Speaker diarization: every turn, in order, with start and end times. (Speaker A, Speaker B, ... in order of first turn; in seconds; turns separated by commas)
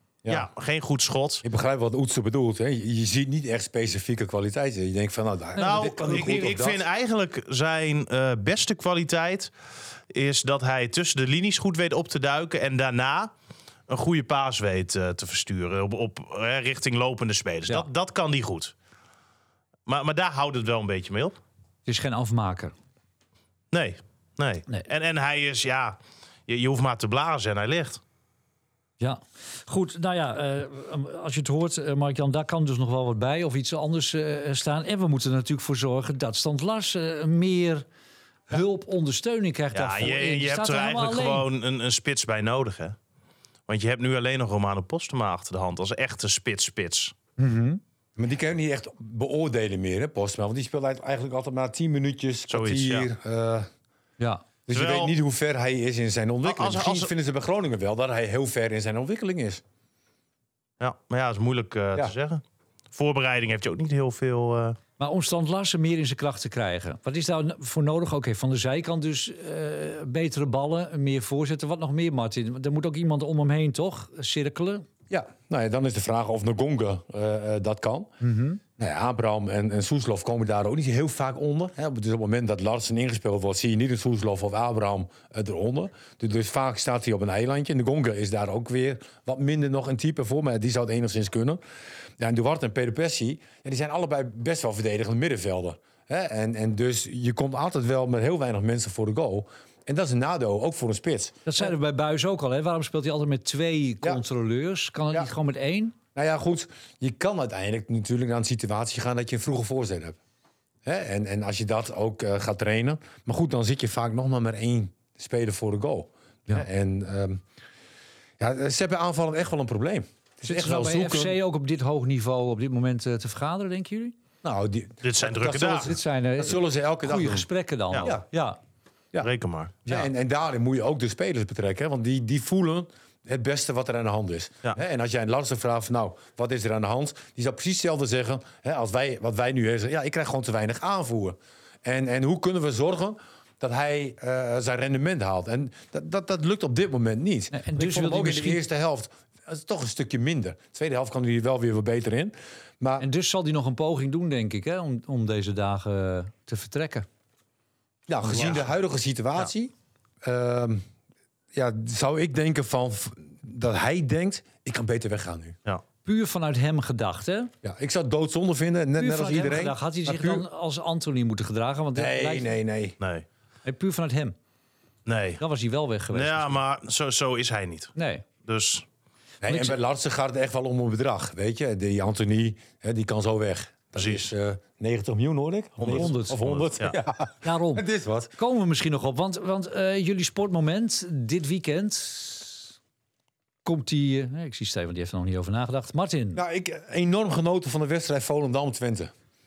Speaker A: 0.3-1.4, Speaker B: 1.4-6.8, Speaker C: 5.6-6.5, Speaker A: 5.6-9.5, Speaker A: 10.1-13.3, Speaker A: 13.9-18.7, Speaker A: 19.9-21.4, Speaker C: 21.9-22.7, Speaker A: 23.7-28.0, Speaker C: 29.0-37.9, Speaker C: 38.5-41.5, Speaker A: 39.7-43.0, Speaker A: 43.7-47.1, Speaker C: 47.4-47.8, Speaker B: 48.2-53.7, Speaker A: 52.5-53.1, Speaker C: 54.2-54.5, Speaker B: 54.7-59.6, Speaker A: 54.7-55.2, Speaker A: 56.4-57.1, Speaker A: 60.8-62.4, Speaker A: 62.9-64.8, Speaker C: 65.0-74.9, Speaker B: 75.1-78.1, Speaker C: 78.2-78.6, Speaker B: 78.8-91.6, Speaker B: 92.2-101.7, Speaker C: 101.5-106.0, Speaker B: 106.2-110.2, Speaker B: 110.8-117.4, Speaker B: 118.4-121.4, Speaker C: 120.4-124.2, Speaker B: 124.4-127.5, Speaker A: 125.0-125.9, Speaker C: 125.8-128.6, Speaker A: 129.2-129.8, Speaker B: 129.9-153.1, Speaker C: 147.5-148.6, Speaker C: 153.0-157.1, Speaker B: 158.1-160.8, Speaker A: 158.3-158.6, Speaker B: 161.5-165.6, Speaker C: 166.0-167.5, Speaker B: 167.6-170.5, Speaker C: 169.0-172.5, Speaker B: 171.9-173.0, Speaker A: 173.0-173.2, Speaker C: 173.7-174.4, Speaker A: 175.1-175.4, Speaker C: 175.4-176.6, Speaker A: 176.1-178.8, Speaker C: 178.0-178.3, Speaker B: 179.4-188.3, Speaker C: 179.5-179.8, Speaker A: 184.0-184.3, Speaker A: 185.8-187.0, Speaker C: 185.9-186.6, Speaker C: 187.4-187.9, Speaker C: 188.4-192.7, Speaker C: 193.7-196.4, Speaker B: 196.3-199.1